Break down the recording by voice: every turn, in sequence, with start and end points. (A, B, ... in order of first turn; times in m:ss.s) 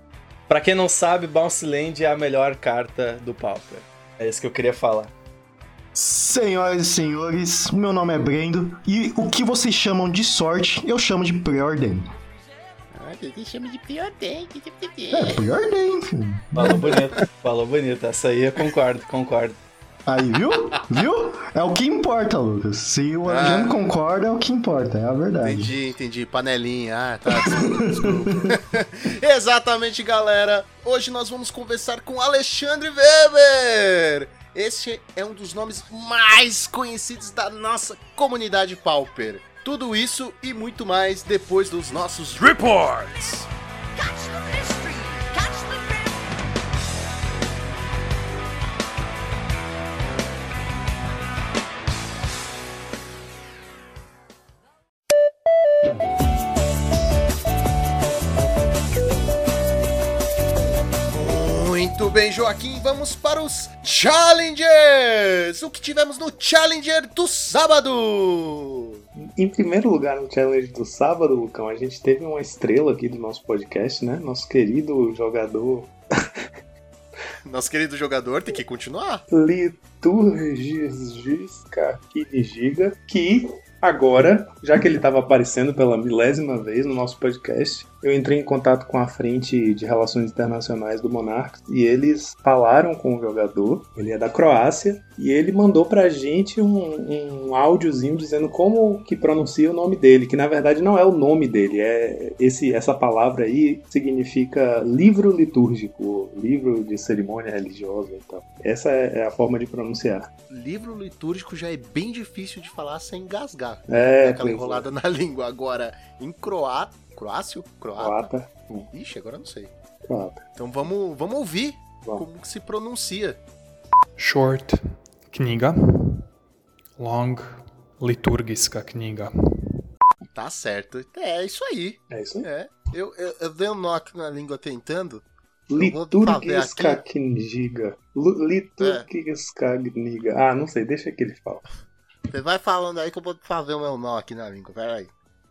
0:00.5-0:05.1 A
0:05.9-0:12.1 B
0:12.9-0:15.5 C
0:15.1-0:16.9 B
0:16.5-0:19.6 A
0:20.0-0:25.8 B
0:23.2-0:23.7 C
0:25.4-0:43.5 C
0:27.3-0:28.6 B
0:43.9-0:46.2 D
1:01.1-1:09.0 C
1:09.2-1:15.9 E
1:17.4-1:19.2 C
1:19.3-1:50.3 E
1:50.5-1:58.3 C
1:53.9-1:54.9 E
1:58.0-1:58.9 E
1:58.9-1:59.7 C
2:00.1-2:00.4 E
2:00.6-2:03.4 C
2:04.2-2:06.3 F
2:07.0-2:09.8 F
2:10.3-2:15.2 C
2:12.1-2:12.5 E
2:15.7-2:21.6 E
2:15.8-2:17.0 C
2:18.8-2:19.0 C
2:22.3-2:25.1 C